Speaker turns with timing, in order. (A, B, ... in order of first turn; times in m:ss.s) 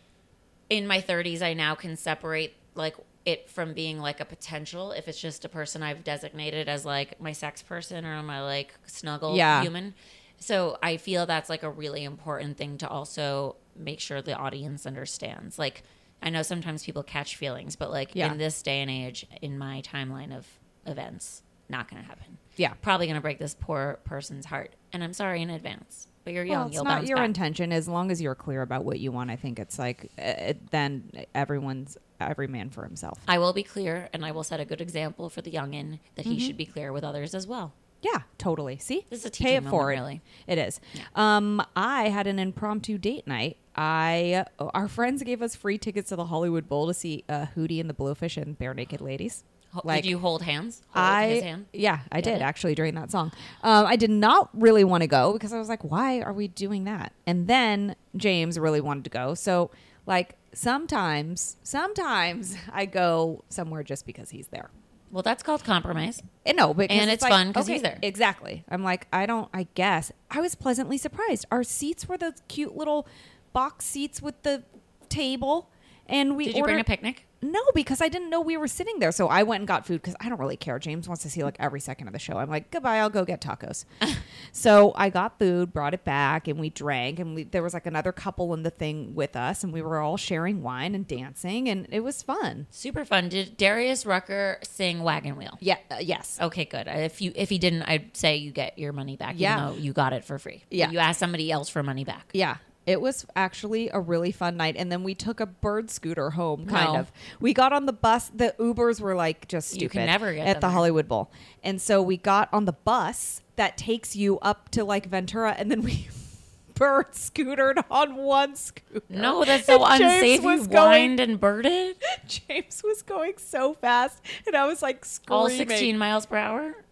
0:00.7-0:27.3 A
0:09.3-0:09.7 B
0:18.1-0:18.4 B
0:26.5-0:33.2 B
0:33.3-0:37.7 A
0:36.2-0:36.5 B
0:38.0-0:50.1 B
0:39.1-0:40.2 A
0:49.7-0:52.5 A
0:50.9-1:04.7 B
1:05.1-1:06.2 A
1:06.4-1:16.9 B
1:06.9-1:08.0 A
1:16.4-1:17.2 A
1:17.4-1:23.9 B
1:24.5-1:32.7 B
1:32.7-1:35.6 A
1:35.6-1:36.4 B
1:36.4-1:42.3 A
1:39.3-1:39.7 B
1:42.3-2:01.2 B
1:46.6-1:47.1 A
1:49.7-1:50.9 A
1:59.1-2:02.0 A
2:02.0-2:05.9 B
2:05.3-2:06.8 A